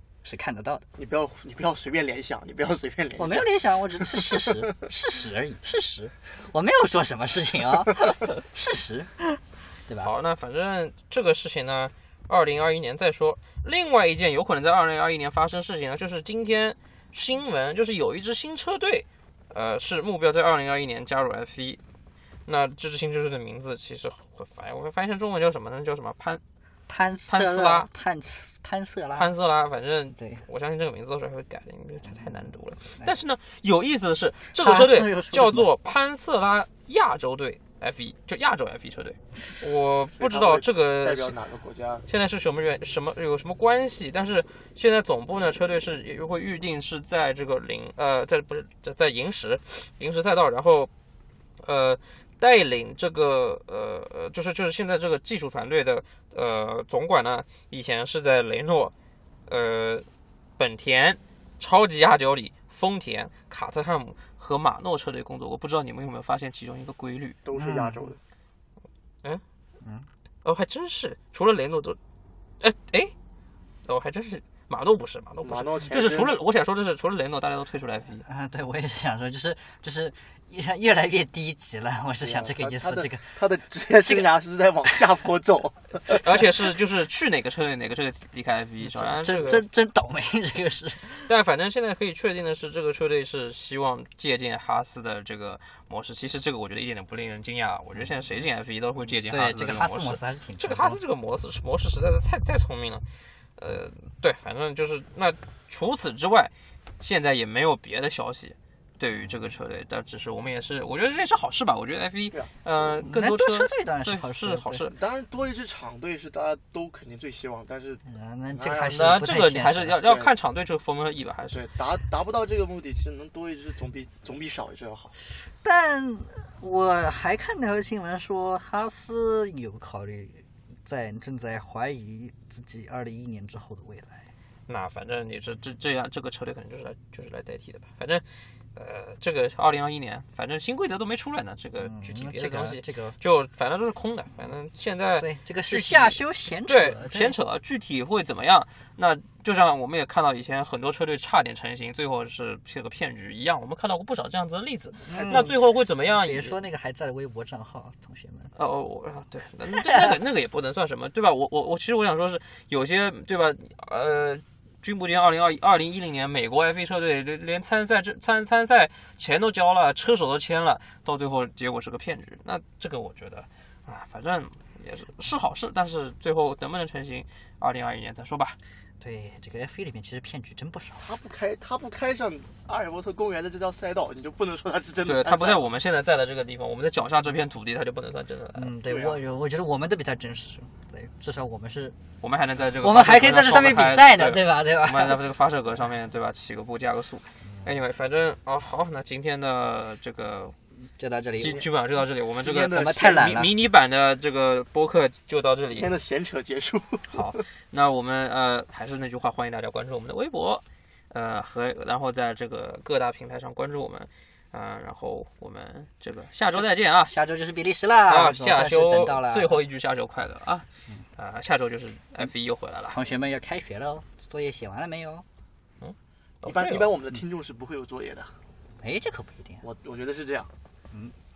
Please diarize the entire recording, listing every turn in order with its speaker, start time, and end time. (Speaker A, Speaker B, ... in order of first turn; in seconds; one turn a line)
Speaker A: 0.2-0.8
Speaker B: 0.9-4.7
Speaker A: 3.2-10.1
Speaker C: 10.0-21.8
Speaker C: 22.4-26.4
Speaker A: 26.9-29.3
Speaker C: 27.3-27.9
Speaker C: 29.1-41.3
Speaker A: 30.2-30.4
Speaker A: 32.0-32.3
Speaker A: 34.5-35.7
Speaker B: 40.1-42.0
Speaker C: 42.1-50.9
Speaker C: 51.6-58.9
Speaker C: 59.5-60.0
Speaker C: 60.6-67.4
Speaker B: 67.4-68.2
Speaker A: 67.5-68.1
Speaker C: 70.4-72.0
Speaker C: 72.6-73.1
Speaker C: 73.8-78.3
Speaker B: 75.4-76.4
Speaker A: 78.2-83.4
Speaker B: 82.2-86.3
Speaker C: 86.1-89.6
Speaker A: 88.8-91.3
Speaker C: 91.3-103.0
Speaker A: 99.2-101.0
Speaker C: 103.6-115.0
Speaker A: 112.9-114.8
Speaker B: 114.9-119.1
Speaker A: 118.0-120.0
Speaker C: 118.9-121.6
Speaker B: 120.0-120.3
Speaker B: 121.5-125.2
Speaker A: 125.6-134.3
Speaker C: 134.7-156.6
Speaker A: 141.8-143.2
Speaker A: 145.2-147.4
Speaker A: 155.0-158.5
Speaker C: 158.5-178.6
Speaker A: 179.0-181.1
Speaker B: 181.0-185.6
Speaker C: 185.0-188.7
Speaker A: 188.5-191.9
Speaker B: 188.8-189.2
Speaker C: 192.2-200.5
Speaker A: 192.8-195.2
Speaker A: 200.9-201.6
Speaker C: 201.4-205.9
Speaker B: 202.4-203.3
Speaker A: 202.7-203.6
Speaker B: 205.7-207.4
Speaker C: 207.1-217.2
Speaker A: 216.5-219.6
Speaker C: 218.1-223.0
Speaker A: 222.9-225.2
Speaker C: 225.8-226.9
Speaker B: 226.4-228.3
Speaker A: 228.8-229.6
Speaker B: 229.6-230.5